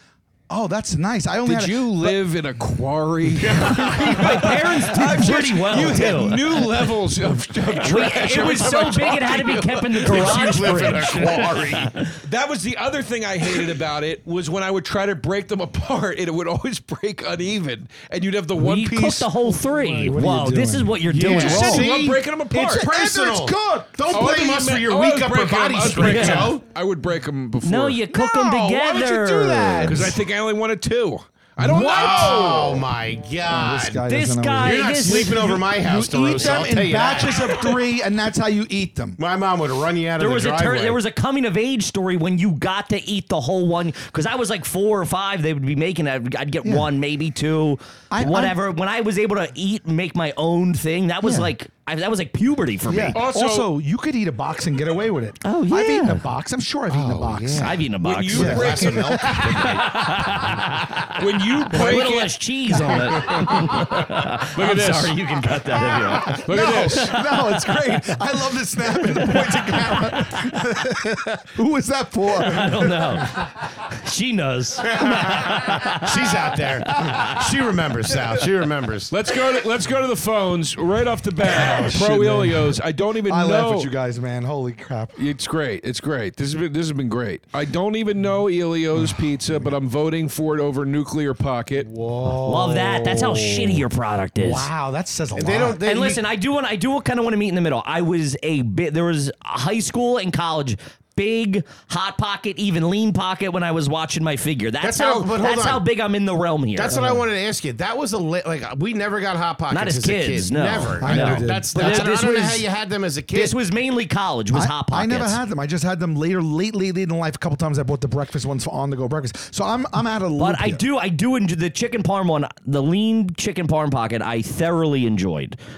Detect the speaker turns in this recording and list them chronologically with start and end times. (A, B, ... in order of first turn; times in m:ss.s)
0:00.5-0:02.2 A
0:01.4-0:19.3 B
0:03.3-0:04.4 C
0:03.8-0:06.8 D
0:07.7-0:12.2 D
0:10.0-0:11.9 C
0:18.6-0:21.8 D
0:20.0-0:21.6 A
0:21.1-0:26.6 C
0:21.3-0:22.9 B
0:22.7-0:24.1 A
0:24.1-0:29.1 B
0:26.0-0:26.5 D
0:27.6-0:30.1 D
0:28.7-0:30.2 A
0:29.8-0:32.9 B
0:31.6-0:32.6 D
0:31.6-0:34.0 C
0:33.5-0:39.2 A
0:34.0-0:35.5 D
0:34.6-0:37.7 C
0:39.2-0:41.0 C
0:40.2-0:53.2 D
0:46.6-0:46.9 A
0:48.1-0:48.6 A
0:51.2-0:51.5 A
0:52.8-0:59.7 A
0:53.1-0:53.7 B
0:55.4-0:56.2 D
0:56.9-0:57.7 C
0:57.6-1:06.8 D
0:58.0-0:59.4 B
0:58.3-1:00.7 C
1:01.1-1:02.4 B
1:03.4-1:03.9 B
1:04.4-1:05.2 B
1:06.2-1:13.4 A
1:06.2-1:07.4 B
1:12.3-1:16.4 D
1:15.0-1:19.1 C
1:16.9-1:17.4 D
1:19.1-1:23.9 B
1:21.4-1:25.2 A
1:25.2-1:31.9 B
1:31.8-1:33.8 A
1:32.4-1:34.6 D
1:34.4-1:35.8 A
1:35.4-1:36.2 C
1:35.8-1:47.0 D
1:44.8-1:45.8 C
1:46.7-1:53.6 C
1:46.9-1:47.2 A
1:49.7-1:52.6 D
1:51.0-1:52.2 A
1:53.3-1:55.4 D
1:54.5-2:00.8 A
2:00.4-2:05.6 D